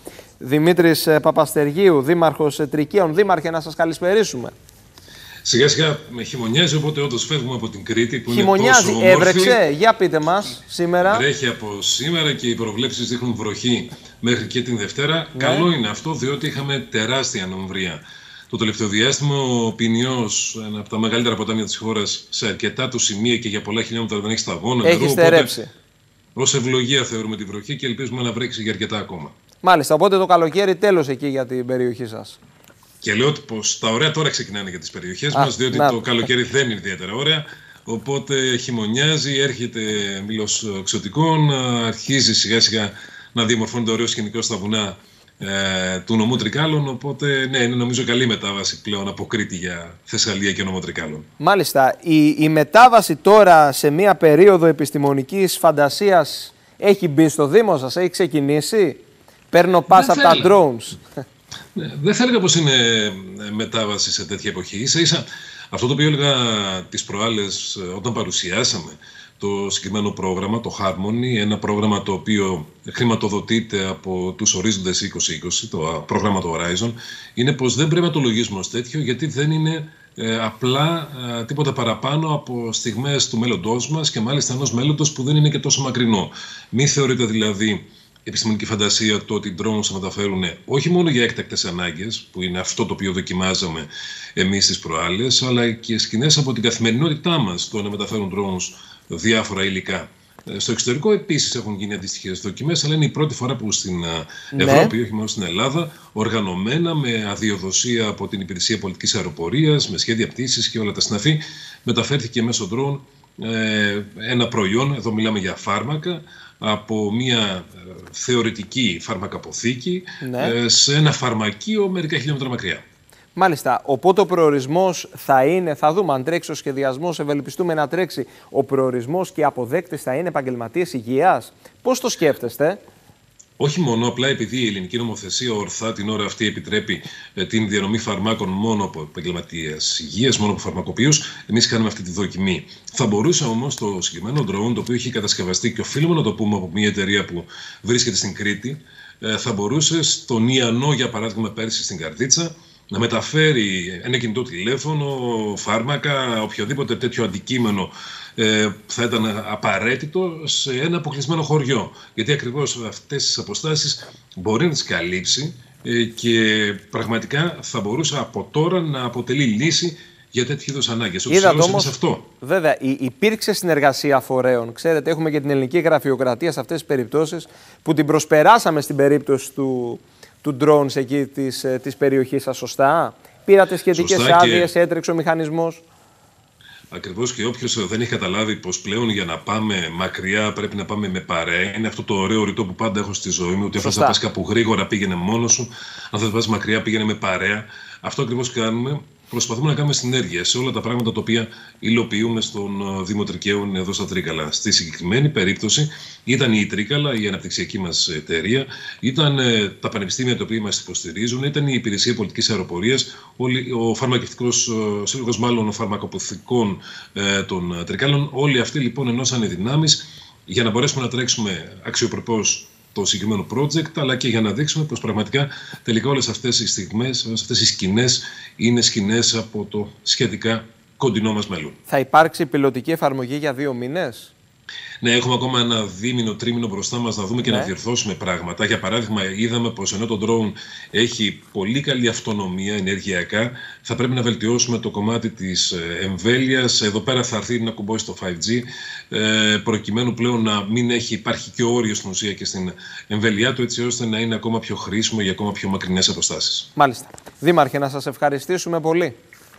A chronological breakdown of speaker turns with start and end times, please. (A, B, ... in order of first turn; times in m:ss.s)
0:00.4-0:04.5 A
0:05.4-0:09.6 B
0:08.3-0:11.2 A
0:11.0-0:25.5 B
0:15.3-0:15.7 A
0:24.8-0:25.7 A
0:26.4-0:29.3 B
0:29.6-0:32.4 A
0:33.0-0:51.3 B
0:35.3-0:36.1 A
0:51.4-1:01.0 A
0:59.9-1:00.5 B
1:01.7-2:02.8 B
1:44.5-1:44.9 A
2:00.2-2:00.5 A
2:03.3-2:12.8 A
2:13.6-2:52.3 B
2:51.3-3:05.8 A
3:03.9-3:04.7 B
3:06.9-3:51.8 B
3:13.8-3:14.2 A
3:51.9-3:54.3 A
3:55.0-4:16.7 B
3:57.4-3:57.7 A
4:16.8-4:19.2 A